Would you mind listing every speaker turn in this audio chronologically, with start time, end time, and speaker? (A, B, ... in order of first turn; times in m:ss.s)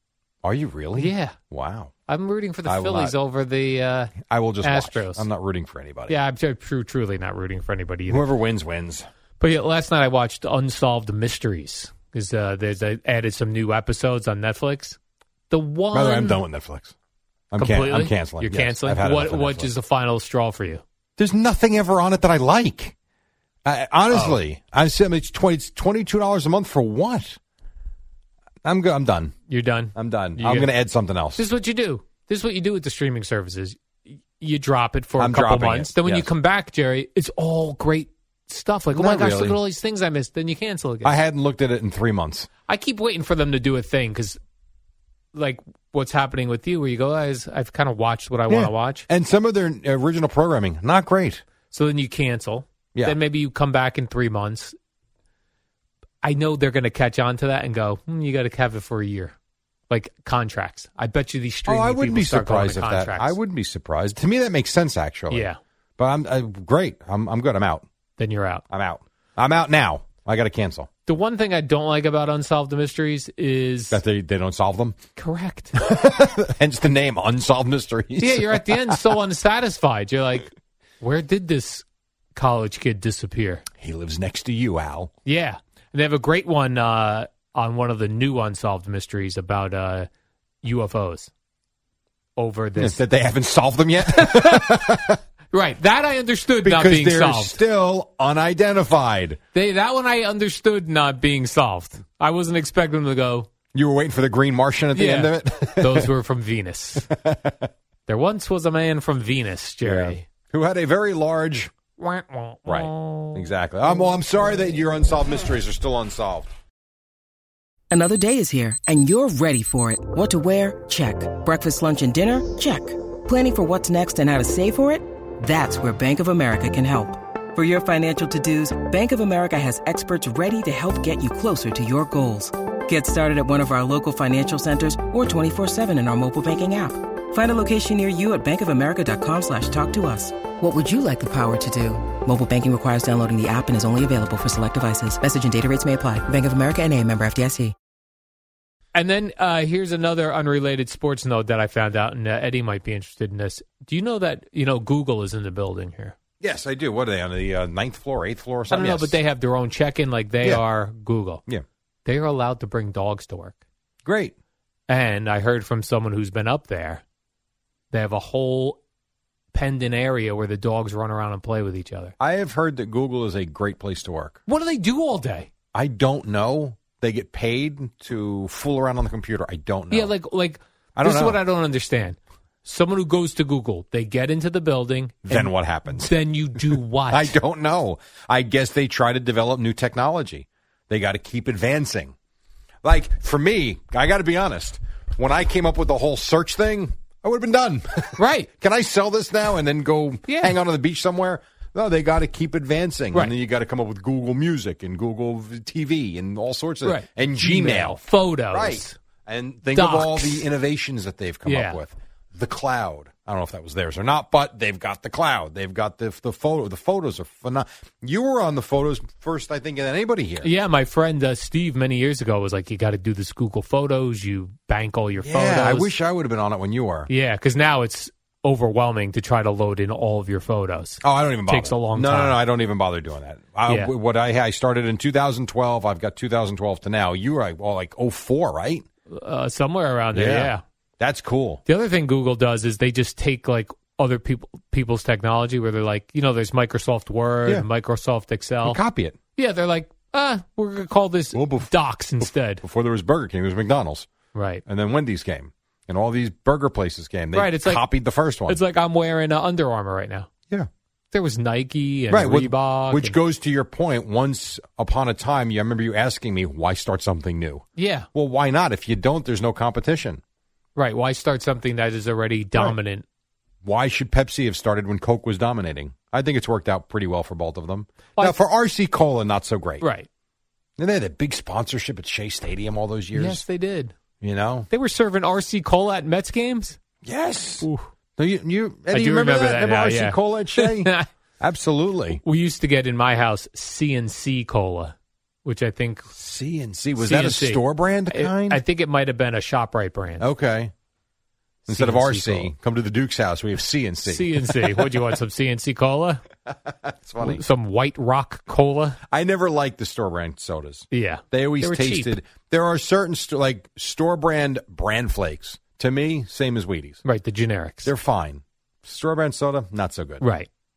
0:00.4-0:01.9 A
0:00.9-0:01.4 B
0:02.1-0:05.3 B
0:02.6-0:03.2 A
0:04.3-0:06.2 A
0:06.1-0:08.3 B
0:08.1-0:09.0 A
0:09.4-0:15.0 B
0:15.5-0:16.4 B
0:15.9-0:16.9 A
0:17.5-0:19.7 A
0:17.6-0:20.8 B
0:21.2-0:22.9 A
0:23.6-0:27.4 A
0:24.1-0:24.4 B
0:28.6-0:29.3 A
0:29.5-0:30.7 B
0:29.9-0:31.4 A
0:31.4-0:41.2 B
0:35.2-0:36.3 A
0:38.9-0:39.6 A
0:41.0-0:42.5 A
0:42.7-0:44.4 B
0:45.3-0:49.0 B
0:48.5-0:51.4 A
0:51.7-0:54.7 B
0:56.2-0:59.3 B
0:59.9-1:03.4 B
1:01.7-1:07.8 A
1:05.3-1:05.6 B
1:08.2-1:08.6 B
1:08.7-1:10.9 A
1:11.0-1:14.0 B
1:13.9-1:15.0 A
1:15.2-1:15.8 B
1:15.8-1:19.2 A
1:18.2-1:23.6 B
1:23.8-1:25.1 A
1:25.2-1:30.1 B
1:30.6-1:31.3 B
1:32.4-1:33.0 B
1:32.8-1:35.2 A
1:34.1-1:35.0 B
1:35.5-1:37.6 B
1:36.6-1:39.4 A
1:39.5-1:43.5 B
1:43.7-1:46.1 A
1:44.9-1:47.1 B
1:47.0-1:47.7 A
1:48.1-1:50.2 B
1:49.8-1:51.7 A
1:52.0-1:53.4 B
1:52.6-1:56.5 A
1:57.9-2:27.7 C
2:28.9-2:36.2 B
2:36.4-2:39.2 A
2:38.7-2:41.4 B
2:42.0-2:43.6 B
2:44.0-2:44.3 A
2:44.9-2:47.0 B
2:47.9-2:48.8 B
2:49.5-2:52.1 B
2:52.2-2:54.4 A
2:54.5-2:55.5 B
2:55.7-3:00.1 A
2:59.9-3:07.4 B
3:01.0-3:01.4 A
3:05.2-3:12.1 A
3:12.8-3:40.5 A
3:18.2-3:18.5 B
3:20.3-3:20.5 B
3:26.8-3:29.0 B
3:29.7-3:30.5 B
3:31.4-3:31.8 B
3:40.4-3:45.9 B
3:45.2-3:47.1 A
3:47.1-3:52.4 B
3:51.0-3:58.8 A
3:53.6-3:53.9 B
3:59.1-4:00.6 B
4:00.1-4:01.6 A
4:01.6-4:08.8 B
4:08.6-4:09.2 A
4:09.4-4:12.6 B
4:11.3-4:14.1 A
4:14.3-4:14.6 B
4:14.6-4:18.6 A
4:17.3-4:17.8 B
4:18.5-4:20.3 B
4:21.1-4:23.2 B
4:22.1-4:30.2 A
4:27.8-4:28.1 B
4:30.7-4:33.0 B
4:33.6-4:39.8 A
4:39.8-4:40.1 B
4:40.8-4:43.4 A
4:43.1-4:43.9 B
4:44.2-4:44.7 A
4:44.7-4:46.8 B
4:47.0-4:52.2 A
4:47.6-4:47.9 B
4:48.9-4:51.1 B
4:52.2-4:56.1 B
4:56.1-4:58.6 A
4:57.0-5:00.2 B
5:00.2-5:00.7 A
5:01.7-5:05.1 A
5:01.7-5:02.5 B
5:04.0-5:06.2 B
5:06.5-5:07.4 A
5:07.2-5:09.0 B
5:09.1-5:17.0 A
5:10.9-5:12.2 B
5:17.0-5:17.9 B
5:17.8-5:20.2 A
5:20.2-5:20.5 B